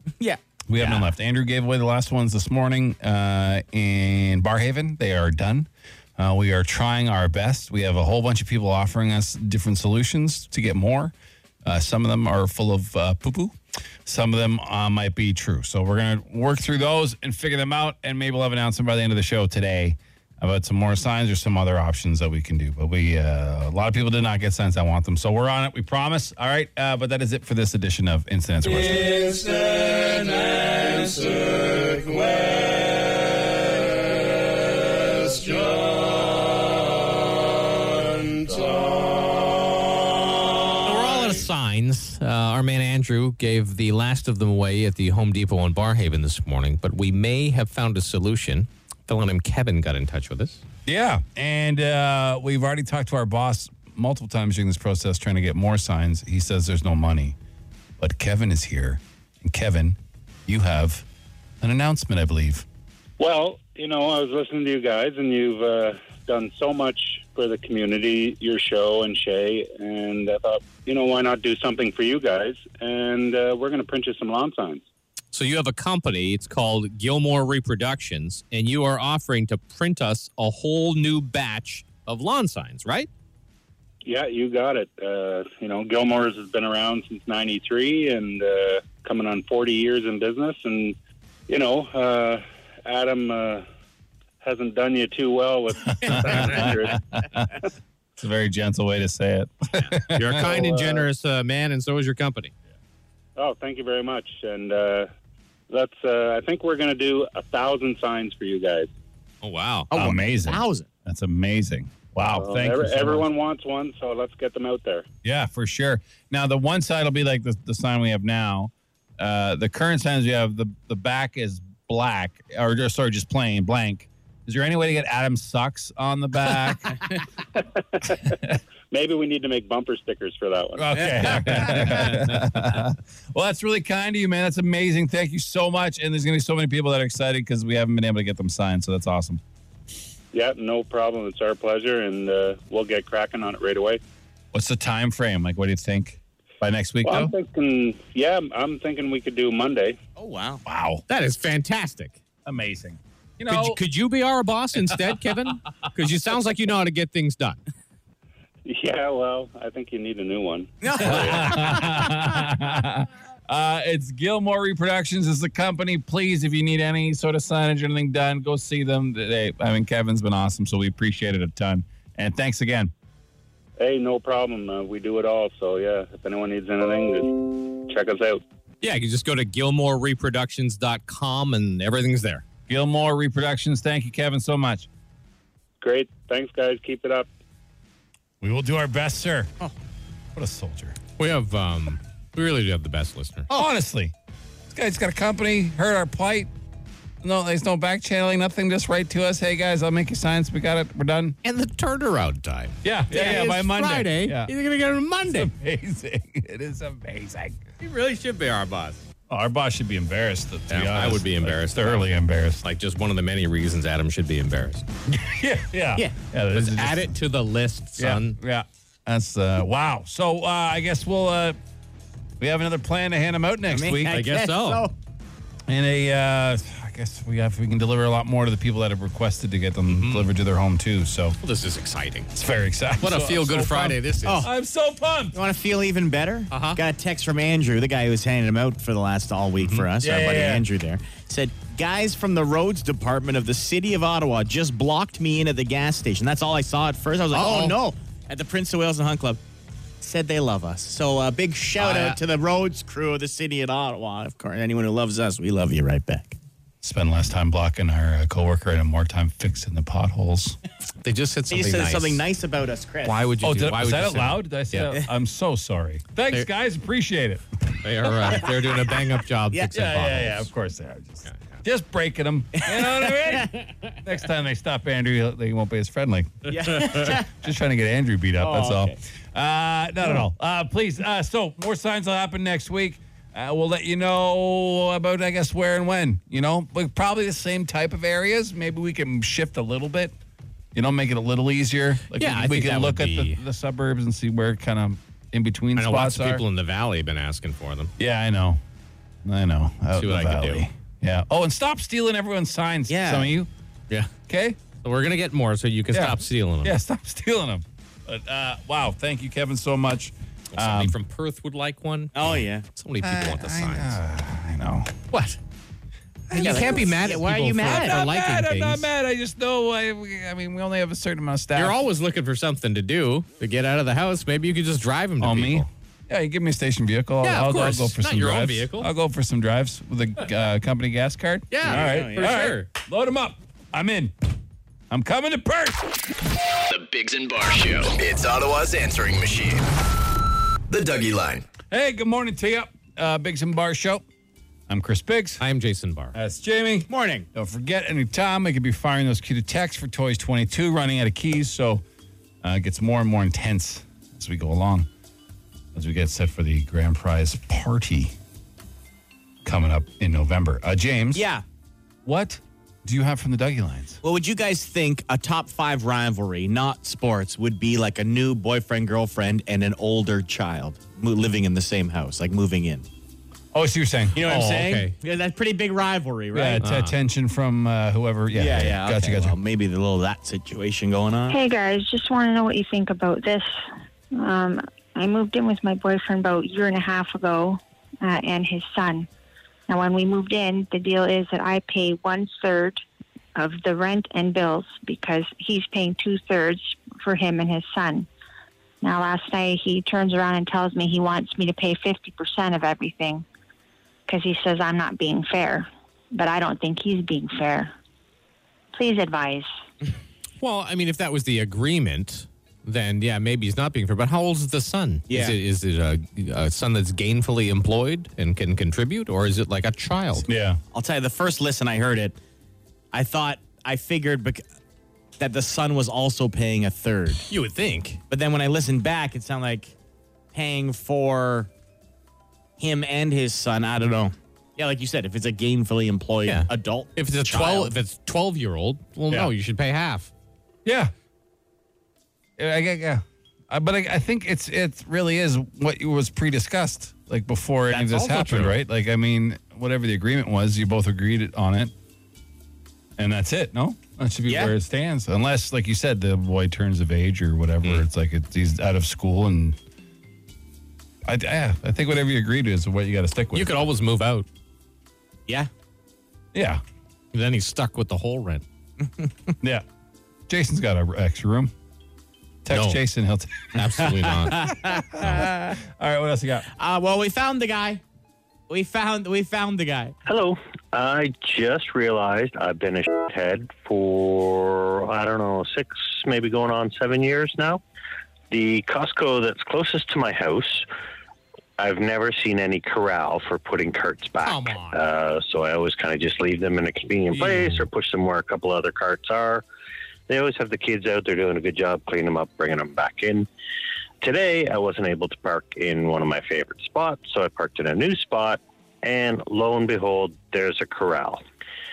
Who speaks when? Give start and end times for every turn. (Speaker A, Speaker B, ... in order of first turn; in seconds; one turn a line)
Speaker A: 0.2-1.1
Speaker B: 0.7-31.1
Speaker C: 40.8-50.6
Speaker B: 50.9-57.4
Speaker B: 58.0-61.0
Speaker B: 61.6-62.6
Speaker D: 63.2-74.8
Speaker C: 75.3-83.1
Speaker D: 84.0-91.0
Speaker D: 91.5-93.6
Speaker D: 94.4-97.0
Speaker A: 96.0-96.7
Speaker B: 96.0-97.5
Speaker B: 98.2-100.6
Speaker C: 99.8-102.5
Speaker D: 100.4-101.0
Speaker D: 103.3-105.1
Speaker D: 105.7-108.9
Speaker C: 109.4-109.9
Speaker A: 109.9-110.8
Speaker B: 109.9-113.3
Speaker D: 112.3-115.0
Speaker B: 115.2-127.1
Speaker D: 127.6-128.3
Speaker B: 128.2-128.6
Speaker D: 128.9-131.0
Speaker B: 130.8-139.4
Speaker D: 140.3-144.0
Speaker B: 144.5-147.3
Speaker D: 147.0-150.0
Speaker A: 150.2-150.6
Speaker B: 150.7-151.0
Speaker C: 151.1-152.2
Speaker B: 152.4-153.8
Speaker C: 153.5-157.6
Speaker B: 154.8-155.1
Speaker D: 158.6-161.5
Speaker A: 160.8-162.1
Speaker B: 161.0-172.9
Speaker D: 173.8-177.3
Speaker D: 177.9-178.4
Speaker C: 178.8-182.4
Speaker B: 182.7-184.9
Speaker D: 185.8-187.3
Speaker B: 188.4-189.5
Speaker B: 190.3-191.0
Speaker C: 191.2-193.5
Speaker B: 193.5-194.1
Speaker B: 194.7-196.5
Speaker B: 197.2-201.4
Speaker C: 201.4-205.5
Speaker B: 202.8-204.5
Speaker A: 203.1-203.5
Speaker B: 205.3-207.6
Speaker C: 207.8-209.0
Speaker B: 209.3-212.6
Speaker C: 210.7-212.1
Speaker C: 212.6-214.8
Speaker B: 215.1-217.1
Speaker C: 216.5-218.3
Speaker B: 218.0-221.6
Speaker B: 222.4-224.2
Speaker A: 223.7-224.9
Speaker C: 224.1-224.9
Speaker B: 225.7-231.4
Speaker C: 229.9-230.3
Speaker C: 231.4-232.3
Speaker B: 232.3-235.4
Speaker C: 233.0-234.5
Speaker A: 234.2-234.5
Speaker A: 235.3-249.4
Speaker C: 236.5-236.8
Speaker C: 239.6-239.8
Speaker B: 240.0-240.6
Speaker C: 247.3-247.8
Speaker A: 250.0-256.4
Speaker C: 251.8-252.2
Speaker B: 256.8-260.6
Speaker C: 261.0-262.2
Speaker A: 261.5-263.2
Speaker C: 263.0-264.9
Speaker B: 263.4-267.4
Speaker C: 267.8-270.5
Speaker B: 269.7-290.1
Speaker C: 271.2-271.6
Speaker A: 272.6-273.9
Speaker A: 276.5-277.3
Speaker A: 278.4-278.9
Speaker B: 290.7-296.4
Speaker C: 292.1-293.4
Speaker C: 295.8-297.9
Speaker B: 298.0-298.6
Speaker B: 299.2-303.5
Speaker C: 299.9-300.6
Speaker A: 302.9-303.3
Speaker B: 304.3-304.6
Speaker C: 304.8-306.7
Speaker B: 305.9-310.9
Speaker C: 310.5-314.0
Speaker A: 312.1-312.6
Speaker B: 313.0-314.9
Speaker C: 315.1-315.4
Speaker B: 316.3-321.8
Speaker A: 316.3-318.0
Speaker C: 316.3-318.8
Speaker C: 321.5-325.7
Speaker B: 325.2-334.1
Speaker C: 327.2-328.9
Speaker C: 331.5-332.7
Speaker A: 331.6-332.3
Speaker B: 334.9-335.8
Speaker E: 336.7-339.7
Speaker E: 340.7-341.5
Speaker B: 341.7-344.0
Speaker B: 344.7-345.4
Speaker C: 345.4-346.1
Speaker B: 346.1-351.8
Speaker A: 346.9-347.3
Speaker B: 352.4-354.9
Speaker B: 355.7-358.1
Speaker B: 359.4-361.2
Speaker A: 361.1-361.4
Speaker B: 362.0-364.0
Speaker A: 364.0-372.9
Speaker B: 373.5-374.7
Speaker A: 374.1-376.6
Speaker C: 374.3-374.9
Speaker B: 376.3-379.4
Speaker C: 376.6-376.9
Speaker A: 378.3-381.4
Speaker F: 381.3-383.5
Speaker F: 384.1-389.1
Speaker F: 389.7-392.8
Speaker F: 393.4-398.1
Speaker F: 398.8-403.2
Speaker F: 404.1-407.7
Speaker F: 408.7-409.5
Speaker C: 410.4-420.2
Speaker A: 415.1-415.4
Speaker B: 420.3-420.6
Speaker A: 420.7-422.2
Speaker A: 422.9-424.4
Speaker A: 425.2-427.2
Speaker C: 427.3-428.0
Speaker A: 428.1-429.7
Speaker A: 430.3-431.5
Speaker A: 432.6-437.7
Speaker C: 436.2-440.1
Speaker B: 440.6-440.9
Speaker B: 442.4-451.7
Speaker A: 447.7-448.5
Speaker B: 453.0-459.6
Speaker A: 454.3-454.5
Speaker B: 461.0-463.6
Speaker C: 463.3-464.3
Speaker B: 466.3-466.6
Speaker C: 467.1-468.4
Speaker A: 468.9-469.3
Speaker B: 470.3-471.5
Speaker B: 472.4-473.3
Speaker C: 472.5-472.8
Speaker C: 473.6-474.5
Speaker A: 473.8-475.6
Speaker B: 474.7-476.5
Speaker A: 476.5-477.8
Speaker A: 478.5-479.9
Speaker G: 480.1-487.6
Speaker G: 488.3-490.6
Speaker G: 491.6-499.4
Speaker C: 494.2-494.8
Speaker C: 497.1-497.6
Speaker G: 500.1-503.3
Speaker G: 504.0-511.2